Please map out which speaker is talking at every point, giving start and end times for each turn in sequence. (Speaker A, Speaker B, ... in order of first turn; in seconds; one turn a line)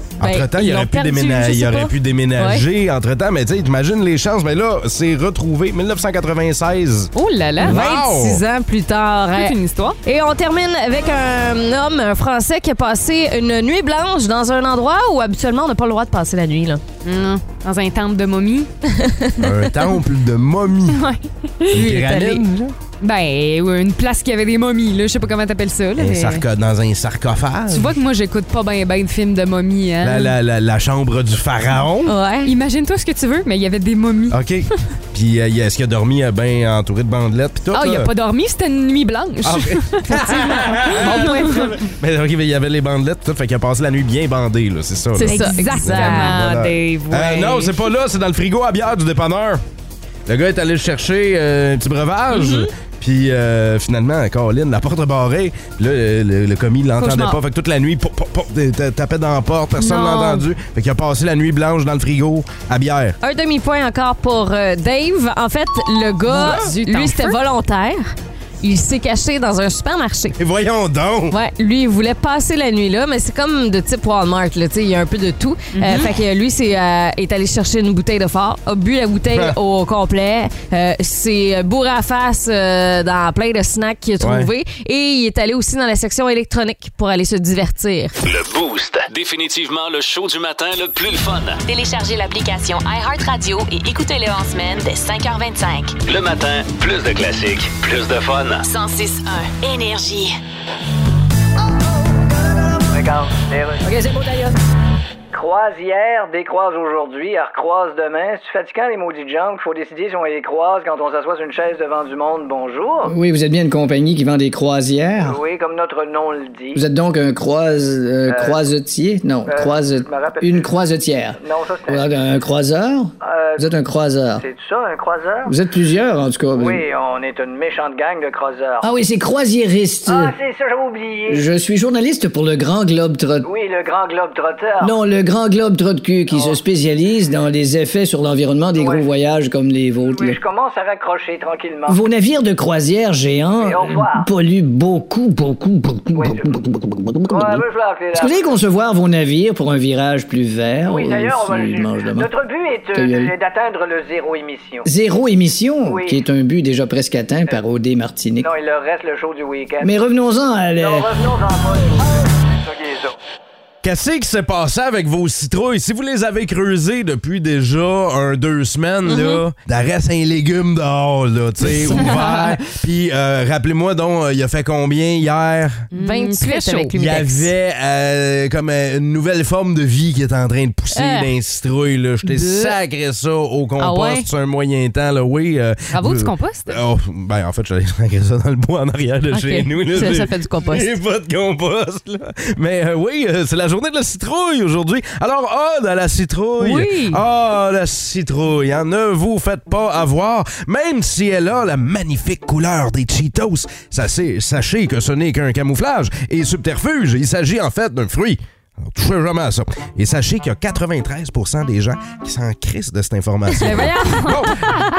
Speaker A: 0.2-8.4
Speaker B: 0.2-2.6
Speaker C: 7.1-8.0
Speaker B: 7.6-16.8
Speaker C: 9.3-10.0
Speaker C: 17.0-18.7
Speaker B: 19.0-19.5
Speaker A: 19.4-21.0
Speaker C: 20.9-22.4
Speaker A: 21.7-22.7
Speaker C: 23.0-26.4
Speaker A: 26.0-28.0
Speaker C: 27.7-30.3
Speaker A: 30.0-32.1
Speaker B: 32.0-32.5
Speaker C: 32.4-34.4
Speaker A: 34.3-38.1
Speaker C: 37.7-41.9
Speaker A: 39.4-49.6
Speaker B: 45.2-46.4
Speaker C: 45.2-47.9
Speaker A: 50.3-63.2
Speaker C: 52.3-52.7
Speaker C: 57.0-57.4
Speaker C: 59.8-60.4
Speaker B: 63.2-68.1
Speaker C: 66.3-67.4
Speaker A: 66.3-66.7
Speaker B: 68.6-70.4
Speaker A: 70.4-71.3
Speaker B: 71.3-88.1
Speaker C: 75.7-76.1
Speaker A: 79.3-79.6
Speaker A: 84.2-84.5
Speaker D: 88.2-91.6
Speaker E: 91.7-95.9
Speaker D: 96.0-98.7
Speaker E: 98.6-100.3
Speaker F: 102.9-104.4
Speaker G: 103.8-104.4
Speaker F: 105.3-113.2
Speaker G: 113.0-115.4
Speaker F: 115.2-116.8
Speaker G: 116.7-124.4
Speaker F: 118.3-118.6
Speaker F: 119.5-120.7
Speaker F: 121.4-122.2
Speaker F: 123.2-123.7
Speaker F: 124.3-125.5
Speaker G: 125.5-126.8
Speaker F: 126.5-128.9
Speaker G: 128.8-130.3
Speaker F: 130.1-131.4
Speaker G: 131.3-133.5
Speaker F: 133.4-134.9
Speaker G: 134.8-140.4
Speaker F: 136.3-136.6
Speaker F: 138.7-139.1
Speaker F: 140.0-142.0
Speaker G: 141.9-152.3
Speaker F: 143.6-144.3
Speaker F: 146.1-146.6
Speaker F: 147.3-148.6
Speaker F: 150.8-154.9
Speaker G: 152.9-153.3
Speaker G: 154.8-158.5
Speaker F: 155.8-156.2
Speaker F: 158.4-159.9
Speaker G: 159.8-161.1
Speaker F: 160.8-163.1
Speaker A: 163.8-175.9
Speaker B: 169.1-169.4
Speaker C: 171.7-172.5
Speaker C: 175.9-177.0
Speaker B: 175.9-177.5
Speaker A: 177.0-214.8
Speaker B: 180.9-181.3
Speaker B: 182.3-182.7
Speaker B: 183.8-184.3
Speaker C: 185.9-186.8
Speaker B: 189.3-190.9
Speaker C: 196.6-197.2
Speaker C: 213.6-214.8